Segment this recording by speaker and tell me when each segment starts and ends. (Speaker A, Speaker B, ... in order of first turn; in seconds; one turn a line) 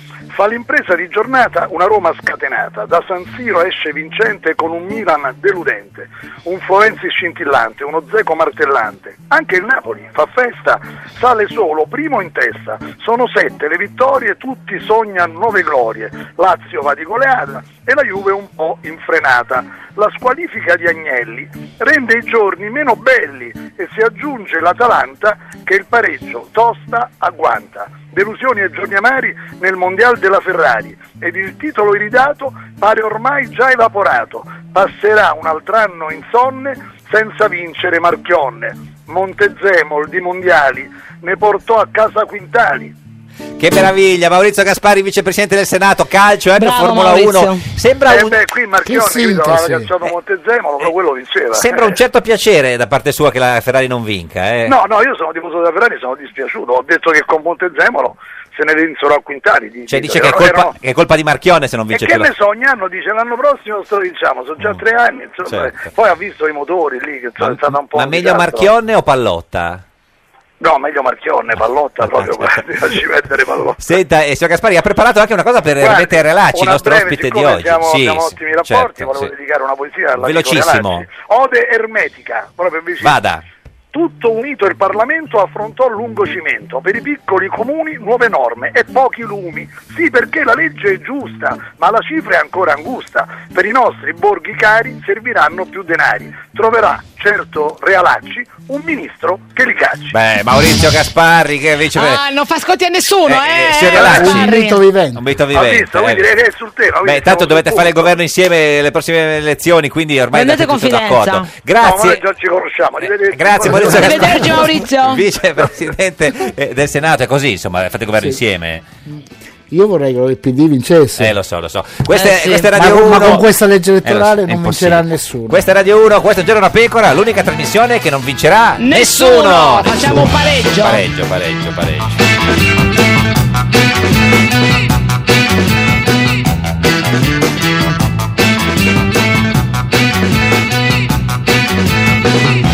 Speaker A: 0.3-42.9
Speaker B: 43.6-48.4
Speaker C: 46.6-47.6
Speaker A: 48.1-52.0
Speaker D: 48.9-50.0
Speaker B: 51.5-54.8
Speaker A: 54.7-60.8
Speaker B: 59.9-62.3
Speaker A: 61.9-68.7
Speaker B: 65.5-65.8
Speaker B: 67.4-69.8
Speaker A: 70.6-73.9
Speaker B: 72.0-72.8
Speaker B: 73.8-79.3
Speaker A: 75.8-83.2
Speaker B: 80.2-81.1
Speaker B: 83.0-83.4
Speaker A: 83.9-100.1
Speaker B: 100.1-102.2
Speaker C: 102.0-104.8
Speaker B: 103.3-104.5
Speaker D: 104.0-105.2
Speaker B: 105.2-106.3
Speaker A: 105.5-108.1
Speaker B: 107.0-112.2
Speaker C: 110.3-111.5
Speaker A: 111.8-114.2
Speaker B: 113.0-118.8
Speaker C: 113.8-115.2
Speaker D: 119.1-121.3
Speaker B: 121.2-123.5
Speaker C: 122.1-122.7
Speaker D: 122.7-125.6
Speaker B: 124.0-132.2
Speaker C: 128.8-131.0